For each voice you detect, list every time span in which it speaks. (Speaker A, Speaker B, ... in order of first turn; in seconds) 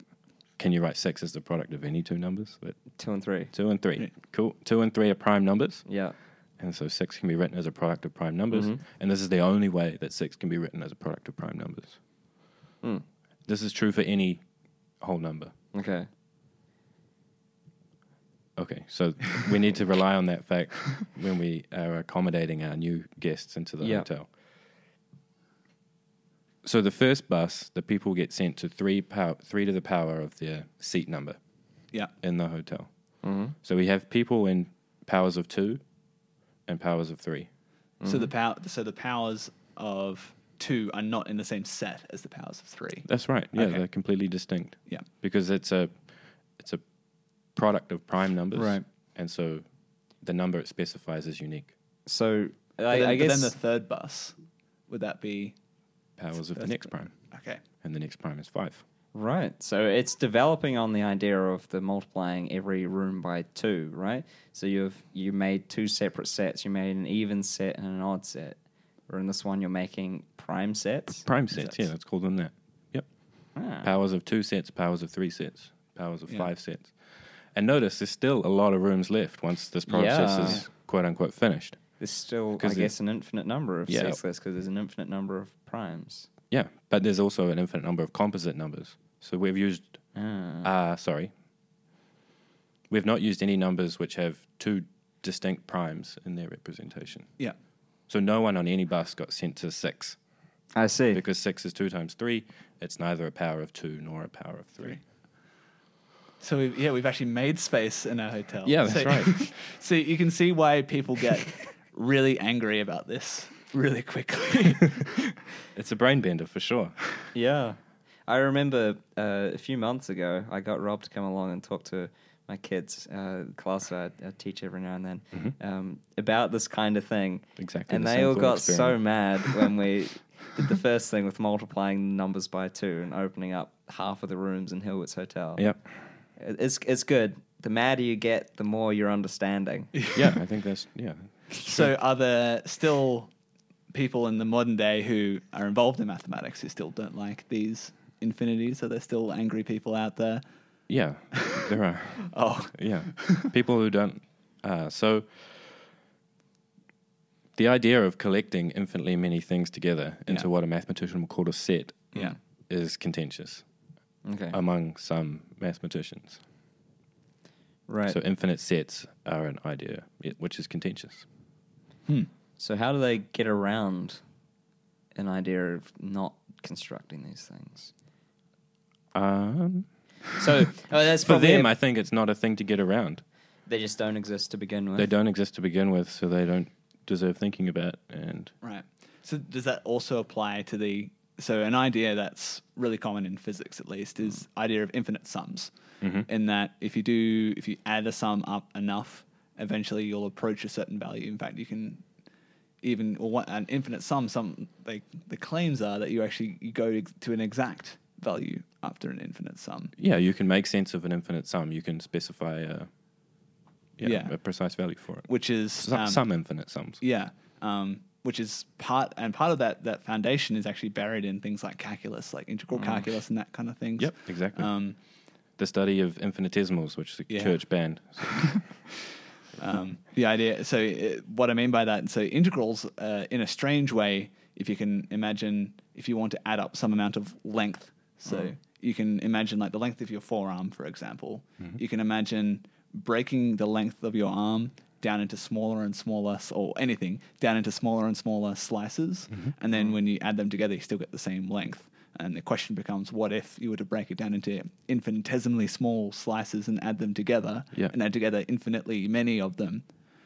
Speaker A: 0.6-3.0, 3.5-5.9, 6.6-12.0, 13.4-14.4, 15.0-15.5, 18.6-24.3, 26.6-31.4, 32.2-35.8, 36.6-37.5, 43.0-46.8, 47.5-49.6, 50.2-51.7, 56.2-57.1, 57.8-58.8, 71.2-82.0, 82.6-82.9, 83.9-84.2, 86.5-90.0, 90.6-91.3, 92.9-97.3, 98.1-100.2, 101.1-105.0, 108.6-109.5, 115.7-117.0, 127.6-129.5, 135.6-135.8, 140.1-141.5, 150.9-155.5, 157.6-163.6, 164.5-166.4, 168.1-171.2, 179.1-180.0, 181.2-183.2, 184.9-188.5, 196.0-196.3, 209.9-212.9, 214.0-217.0, 224.0-224.7, 225.6-228.6
Speaker B: 3.0-3.5, 5.8-6.2, 8.5-8.8, 15.7-16.1, 23.8-24.1, 33.2-33.5, 38.0-38.3, 48.5-48.8, 52.0-53.5, 59.1-71.3, 73.5-73.9, 79.9-80.6, 82.0-86.3, 90.1-90.7, 100.7-101.2, 117.3-135.7, 136.4-139.9, 164.2-164.6, 167.9-168.2, 172.6-174.2, 175.1-177.9, 180.4-181.7, 183.7-185.1, 222.7-223.0
Speaker C: 38.0-43.8, 52.9-54.4, 54.9-55.5, 56.5-57.6, 71.5-71.8, 106.4-115.3, 141.6-143.3, 143.9-150.4, 151.3-151.7, 152.3-153.5, 188.6-195.7, 196.2-202.0, 202.8-209.9, 214.0-216.4, 217.0-224.9, 227.3-228.8, 229.6-259.8